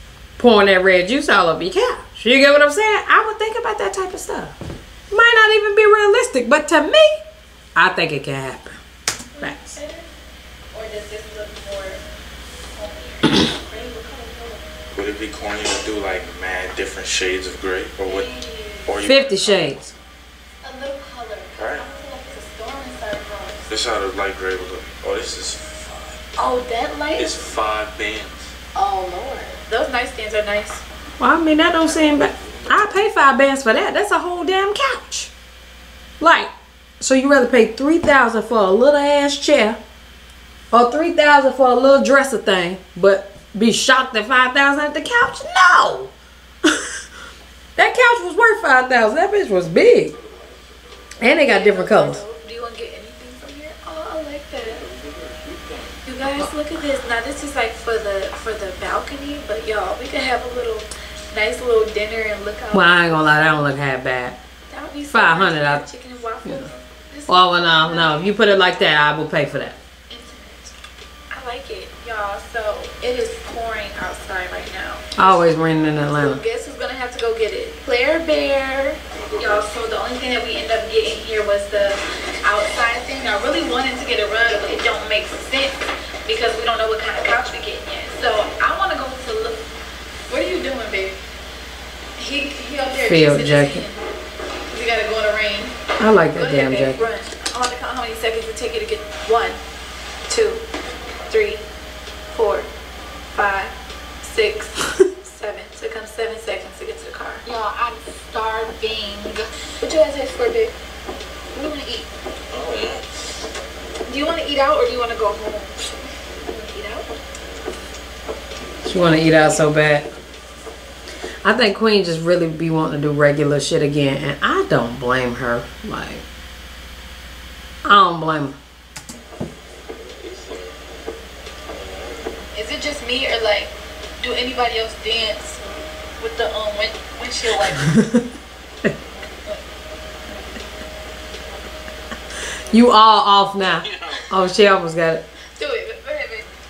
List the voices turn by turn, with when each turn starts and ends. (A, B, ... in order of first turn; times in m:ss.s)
0:00.4-0:04.6 A
0:05.1-0:07.2 A
0:07.7-0:08.8 A
0:09.4-0:10.1 B
0:09.4-0:09.8 A
0:10.7-0:12.0 B
0:12.7-0:14.6 B
0:14.9-0:18.3 C
0:18.0-0:19.1 B
0:18.8-0:19.7 C
0:19.0-0:19.9 A
0:20.6-0:23.7 B
0:21.6-0:21.8 C
0:23.7-0:26.2 C
0:26.4-0:27.4 B
0:27.2-0:28.5 C
0:28.7-0:30.8 B
0:31.2-0:35.3 A
0:31.7-0:32.9 C
0:36.2-0:39.8 A
0:40.7-0:46.1 A
0:46.6-0:46.9 A
0:47.8-0:50.1 A
0:50.1-0:51.2 C
0:51.2-0:52.2 A
0:51.5-0:54.8 B
0:54.6-0:56.0 C
0:56.0-1:03.0 B
1:02.7-1:04.4 A
1:04.7-1:08.6 B
1:05.1-1:05.8 A
1:07.3-1:09.8 A
1:10.1-1:10.7 B
1:11.3-1:15.0 B
1:15.2-1:16.4 A
1:16.0-1:29.6 B
1:19.1-1:19.7 C
1:30.3-1:31.2 B
1:32.2-1:34.0 B
1:33.0-1:33.8 A
1:34.7-1:35.8 B
1:36.0-1:37.0 A
1:36.3-1:39.6 B
1:40.3-1:40.6 B
1:41.3-1:41.6 B
1:42.3-1:42.7 B
1:43.3-1:50.7 B
1:51.5-1:52.1 B
1:52.5-1:53.2 C
1:54.1-1:57.2 B
1:58.8-2:00.1 A
2:01.4-2:06.2 A
2:07.8-2:08.6 A
2:09.9-2:11.0 C
2:11.7-2:12.4 C
2:12.5-2:15.6 B
2:16.2-2:17.9 B
2:17.8-2:18.2 A
2:22.7-2:25.2 A
2:23.6-2:24.3 C
2:25.6-2:26.5 B